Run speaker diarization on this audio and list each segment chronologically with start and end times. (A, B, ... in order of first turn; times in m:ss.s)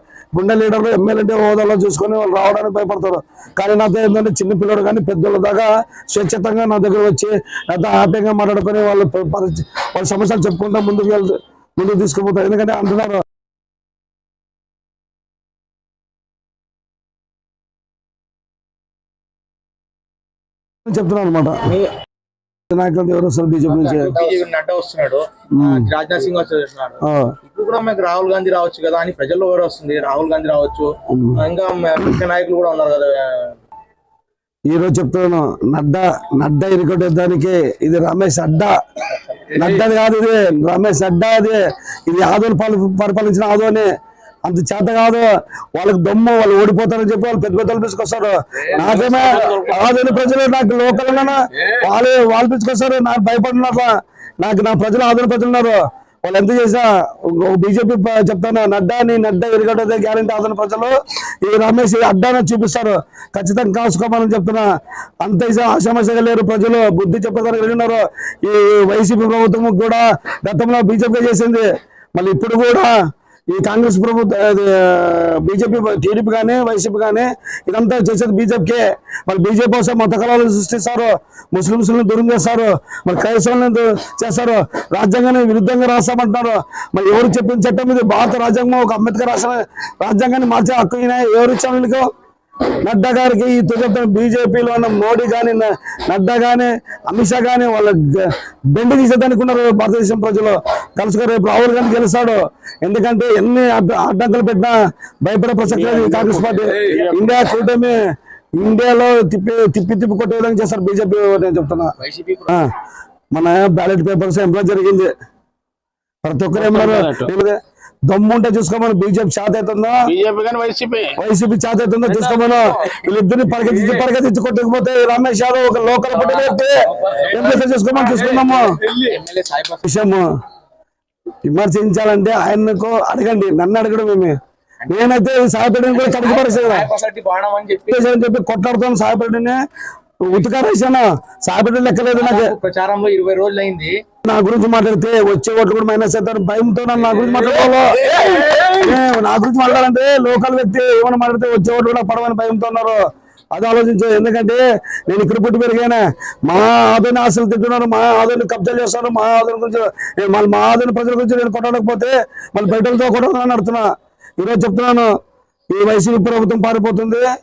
0:00.3-0:13.2 A
0:20.9-0:21.7 A
0:21.6-0:21.9 B
0:22.7-0:24.2 A
0:23.7-0:33.5 B
0:25.6-0:25.9 A
0:27.0-0:27.4 A
0:31.1-0:31.4 A
0:34.7-0:38.8 A
0:39.5-0:43.9 A
0:39.5-0:39.8 B
0:44.4-1:04.6 A
0:48.8-0:49.8 C
0:49.0-0:49.7 B
1:05.2-1:12.9 A
1:13.5-1:32.1 A
1:32.8-1:48.0 A
1:45.7-1:47.4 C
1:48.6-1:51.9 A
1:52.0-1:52.4 B
1:53.3-1:55.1 A
1:56.2-2:00.1 A
1:56.6-1:57.3 C
2:00.0-2:01.2 C
2:01.2-2:08.8 A
2:02.1-2:02.7 B
2:06.4-2:07.6 B
2:08.1-2:09.9 B
2:09.8-2:10.3 A
2:11.4-2:14.4 A
2:14.9-2:16.9 A
2:15.9-2:18.1 B
2:17.9-2:19.6 A
2:20.2-2:22.5 A
2:22.2-2:24.0 B
2:24.2-2:33.0 A
2:27.3-2:28.8 B
2:33.5-2:43.9 A
2:44.4-2:45.1 A
2:45.7-2:47.3 A